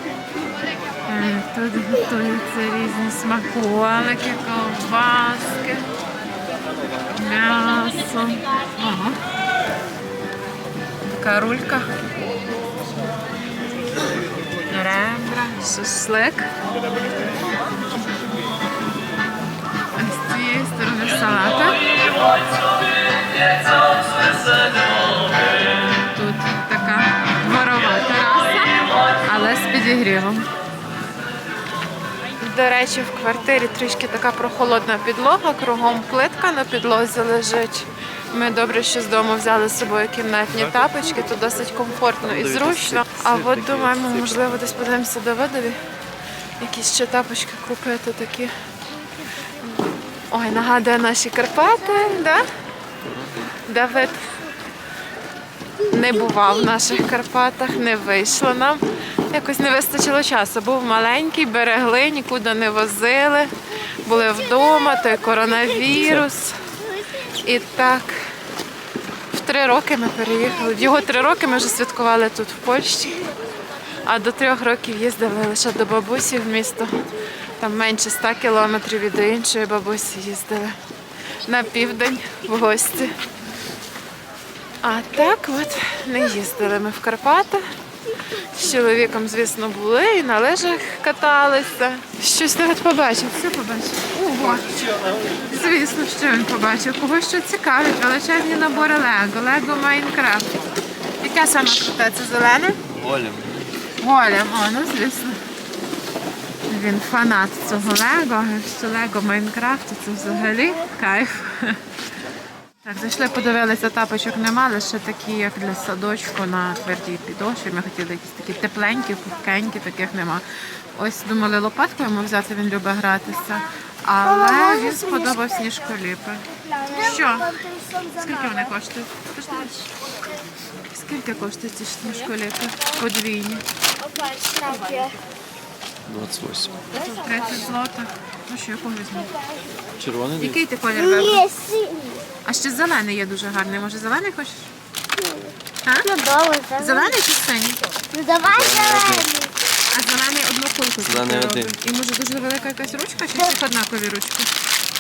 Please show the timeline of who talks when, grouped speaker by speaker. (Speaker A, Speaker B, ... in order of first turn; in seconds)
Speaker A: 1.1-5.9, 7.2-9.2, 11.0-11.9, 14.7-16.5, 19.9-21.9, 25.9-30.5, 32.4-45.8, 46.6-48.5, 49.6-52.5, 53.6-54.3, 55.8-66.7, 67.3-68.4, 69.3-73.3, 74.0-76.9, 77.6-80.8, 81.4-83.2, 84.8-87.7, 88.3-94.8, 95.4-100.5, 101.2-102.8, 104.0-105.4, 106.7-111.8, 112.8-129.9, 130.9-133.7, 136.9-139.3, 140.4-141.5, 142.4-144.7, 145.8-146.1, 146.8-147.9, 149.9-154.5
Speaker B: 42.2-44.9, 53.0-53.5, 102.9-103.7, 136.1-136.8, 140.0-140.6, 148.4-149.4, 151.0-151.8
Speaker C: 134.1-135.2, 141.4-142.2, 145.2-145.6, 146.1-147.1, 148.1-149.5